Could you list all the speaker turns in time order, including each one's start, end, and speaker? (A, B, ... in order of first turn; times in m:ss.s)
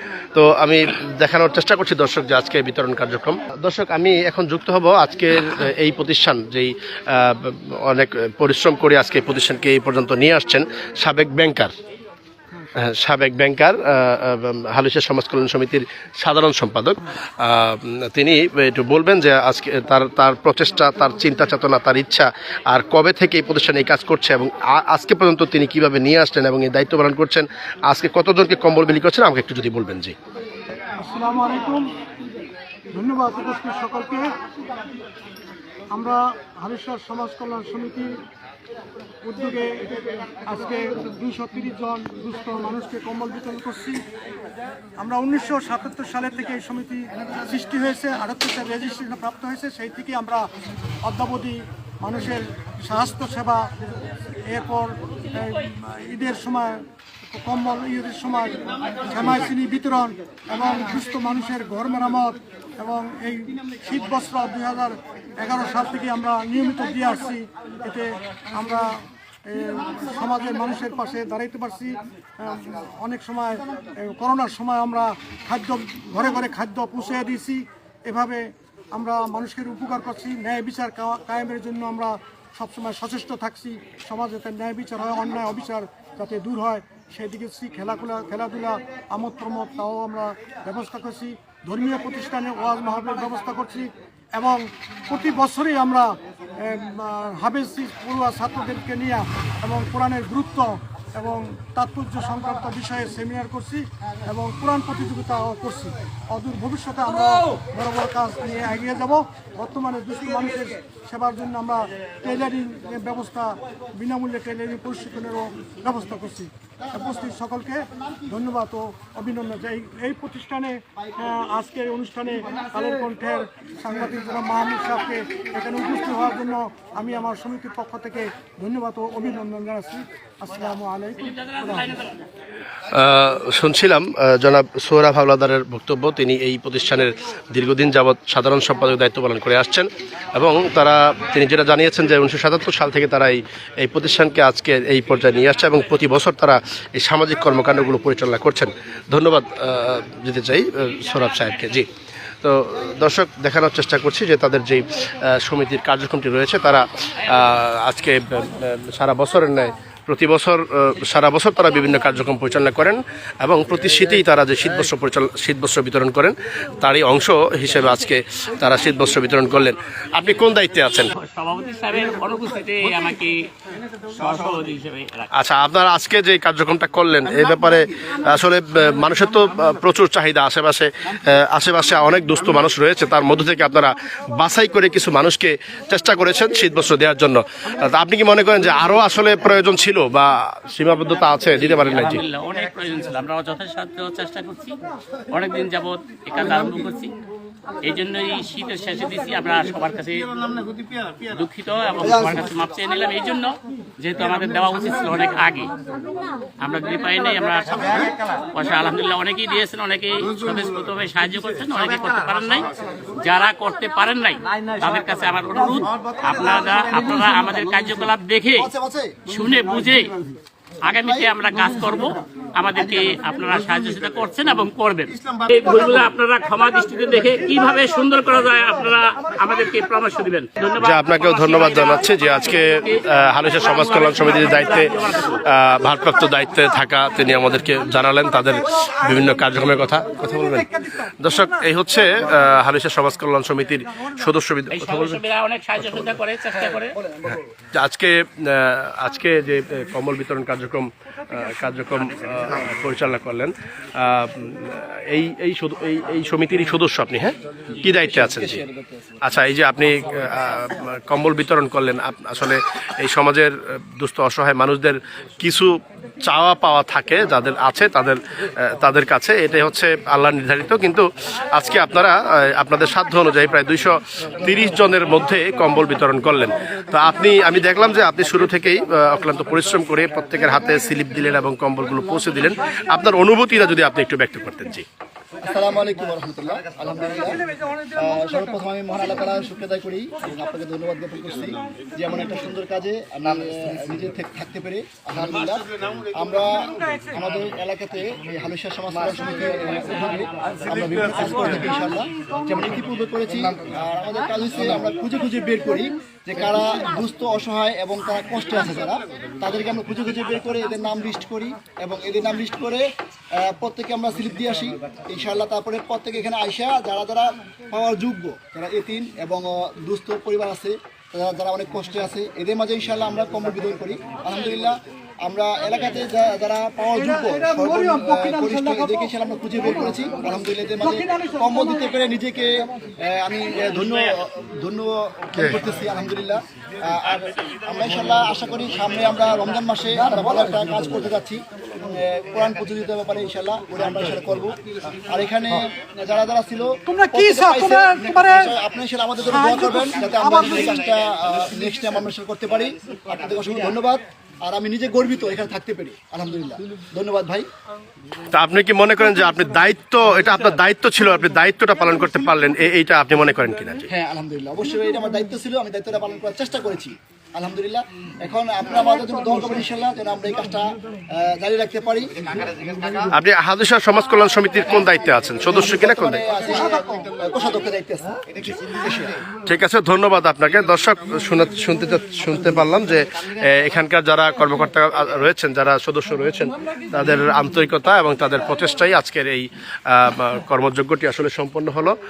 0:00.3-0:11.7 A
0:12.8-0:30.1 A
0:31.0-0:31.8 B
0:32.9-0:34.3 B
0:35.9-0:38.1 B
0:39.2-0:39.9 B
0:40.4-0:44.0 B
0:45.0-0:50.5 B
0:51.0-0:53.7 B
0:54.5-1:08.9 B
1:09.5-2:12.0 B
2:12.9-2:31.9 A
2:32.4-2:51.1 A
2:51.2-2:53.5 C
2:54.1-2:55.3 C
2:55.4-3:12.2 A
3:11.6-3:14.8 C
3:15.3-3:17.1 C
3:17.8-3:20.3 C
3:21.3-3:25.7 C
3:26.6-3:32.7 C
3:33.2-3:38.7 C
3:38.6-3:39.2 D
3:39.3-3:40.1 C
3:40.8-3:55.4 C
3:50.8-3:54.9 A
3:55.4-4:06.2 A
4:04.7-4:06.9 C
4:07.8-4:18.6 A
4:18.1-4:19.2 D
4:19.2-4:25.7 A
4:26.2-4:44.8 A
4:45.4-4:47.4 D
4:47.9-5:12.8 D
5:13.4-5:32.5 D
5:27.0-5:29.1 B
5:29.6-5:29.9 B
5:30.8-5:31.9 B
5:33.0-5:41.4 D
5:41.9-5:44.5 D
5:45.0-5:57.5 D
5:46.9-5:48.5 B
5:49.3-5:50.8 B
5:58.3-6:03.9 A
6:03.9-6:13.0 D
6:13.1-6:16.2 A
6:15.4-6:19.2 D
6:19.4-6:31.9 A